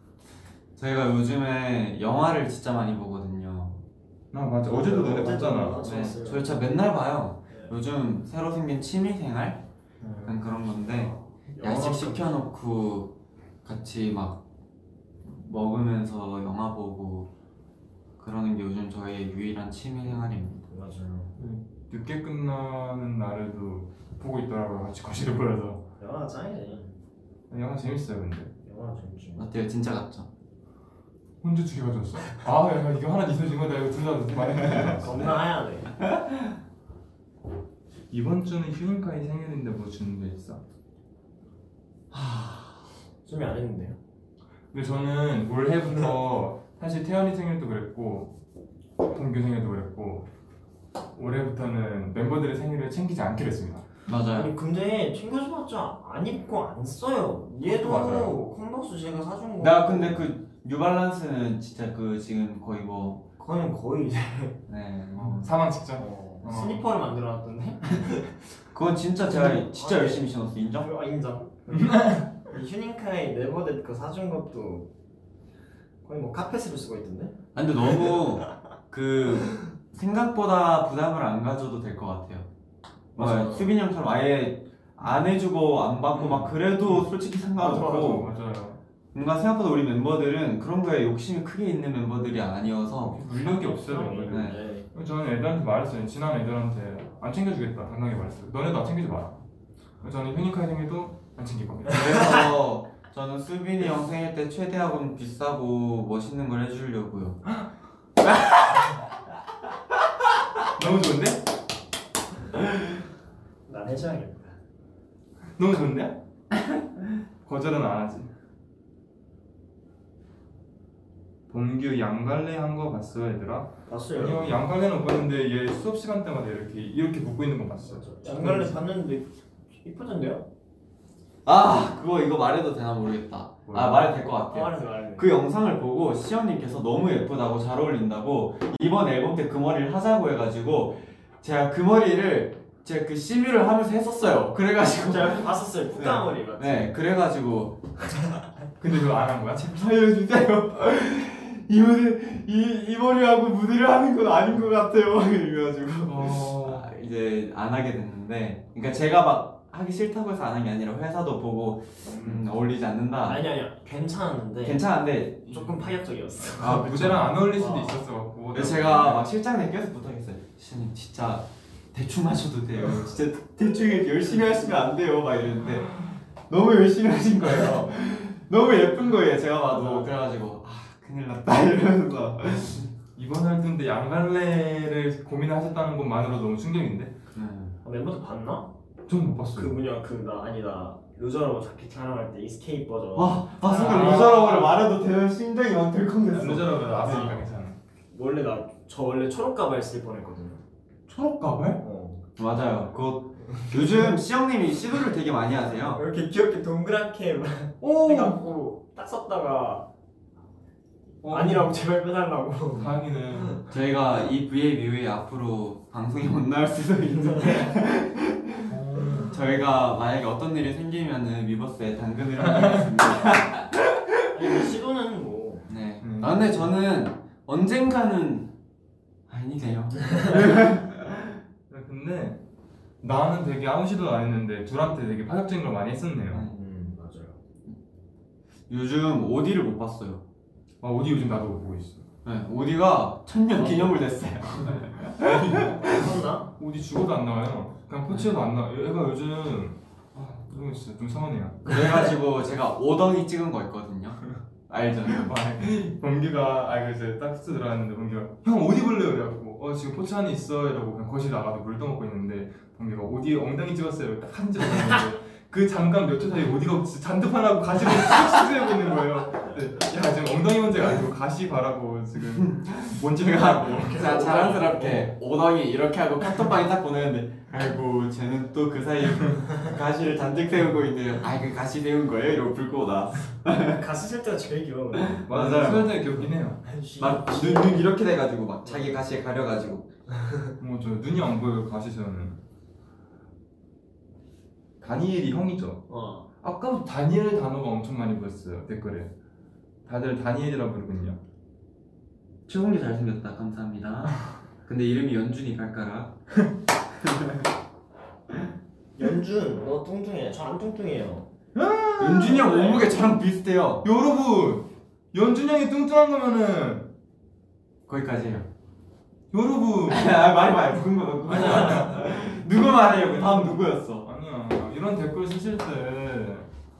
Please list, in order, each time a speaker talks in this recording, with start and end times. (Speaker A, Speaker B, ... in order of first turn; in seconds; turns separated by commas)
Speaker A: 0.8-3.8, Speaker B: 4.3-5.9, Speaker C: 4.7-6.6, Speaker A: 5.8-9.6, Speaker C: 10.0-12.4, Speaker A: 10.2-14.4, Speaker A: 15.2-17.3, Speaker A: 18.2-20.7, Speaker C: 20.7-21.4, Speaker B: 21.4-25.8, Speaker C: 26.0-26.9, Speaker B: 27.5-28.5, Speaker C: 28.6-29.5, Speaker A: 29.4-30.3, Speaker B: 31.4-35.3, Speaker A: 34.6-35.4, Speaker C: 35.0-35.9, Speaker A: 36.0-36.3, Speaker B: 38.1-40.6, Speaker C: 42.3-42.6, Speaker C: 43.2-44.0, Speaker B: 44.7-48.4, Speaker B: 49.0-50.3, Speaker B: 51.1-53.9, Speaker A: 54.1-54.5, Speaker C: 54.3-60.3, Speaker B: 57.6-58.4, Speaker A: 59.6-63.2, Speaker C: 63.4-64.6, Speaker A: 64.7-65.5, Speaker B: 65.2-66.8, Speaker C: 66.0-68.4, Speaker A: 68.7-70.9, Speaker C: 69.2-74.9, Speaker B: 71.7-72.3, Speaker C: 76.0-77.4, Speaker A: 77.5-82.5, Speaker C: 83.2-83.8, Speaker A: 83.2-88.3, Speaker B: 86.2-87.0, Speaker C: 87.6-88.3, Speaker B: 87.7-88.8, Speaker A: 89.1-93.2, Speaker B: 93.1-99.4, Speaker C: 93.2-94.9, Speaker A: 94.3-94.6, Speaker B: 100.0-102.1, Speaker A: 101.9-107.4, Speaker A: 108.2-108.8, Speaker B: 110.8-111.4, Speaker C: 113.7-114.6, Speaker B: 115.6-116.2, Speaker B: 117.5-118.3, Speaker B: 121.5-128.8, Speaker C: 123.9-124.6, Speaker C: 127.8-130.5, Speaker A: 131.5-147.9, Speaker B: 133.7-134.1, Speaker C: 134.5-135.3, Speaker C: 145.0-146.9, Speaker B: 148.8-149.9, Speaker A: 149.7-163.4, Speaker B: 156.1-156.9, Speaker C: 162.1-162.4, Speaker C: 163.2-164.8, Speaker A: 164.6-165.5, Speaker C: 165.5-166.8, Speaker B: 165.5-169.3, Speaker A: 166.6-167.3, Speaker C: 167.5-168.0, Speaker A: 168.5-182.9, Speaker C: 179.8-180.1, Speaker B: 183.2-187.1, Speaker A: 187.3-187.8, Speaker C: 187.8-188.7, Speaker B: 189.1-189.8, Speaker C: 189.6-194.2, Speaker A: 193.2-197.4, Speaker B: 193.6-194.9, Speaker B: 196.3-197.8, Speaker C: 197.0-197.4, Speaker C: 198.1-200.6, Speaker B: 201.1-201.8, Speaker C: 201.8-202.2, Speaker A: 202.4-206.0, Speaker C: 205.9-209.9, Speaker B: 207.8-208.4, Speaker B: 211.2-211.8, Speaker C: 211.3-213.6, Speaker B: 212.8-213.6, Speaker A: 213.7-218.7, Speaker C: 217.2-217.8, Speaker B: 218.7-219.4, Speaker A: 219.3-224.3, Speaker B: 222.4-222.9, Speaker C: 224.3-225.7, Speaker A: 225.7-228.5, Speaker B: 226.0-226.7, Speaker A: 229.3-231.4, Speaker B: 231.7-232.4, Speaker B: 233.0-236.5, Speaker C: 236.5-237.4, Speaker A: 238.7-240.2, Speaker B: 240.8-242.1, Speaker A: 242.2-246.1, Speaker B: 243.6-243.9, Speaker B: 244.6-251.8, Speaker C: 245.8-246.5, Speaker A: 251.7-255.3, Speaker B: 255.1-275.0, Speaker A: 272.4-283.8, Speaker C: 273.8-275.0, Speaker C: 283.7-285.3, Speaker A: 284.9-286.0, Speaker B: 285.3-286.6, Speaker C: 286.6-287.8, Speaker A: 287.0-289.9, Speaker C: 288.6-288.9, Speaker C: 290.1-290.5, Speaker B: 290.6-292.4, Speaker B: 294.8-295.8, Speaker C: 295.9-296.3, Speaker B: 296.4-299.1, Speaker B: 299.9-301.2, Speaker A: 302.5-306.2, Speaker A: 307.0-307.4, Speaker C: 309.0-311.3, Speaker B: 311.6-312.8, Speaker A: 312.0-313.9, Speaker B: 313.8-316.9, Speaker A: 317.9-318.5, Speaker B: 319.3-320.1, Speaker A: 319.9-324.1, Speaker B: 321.2-326.5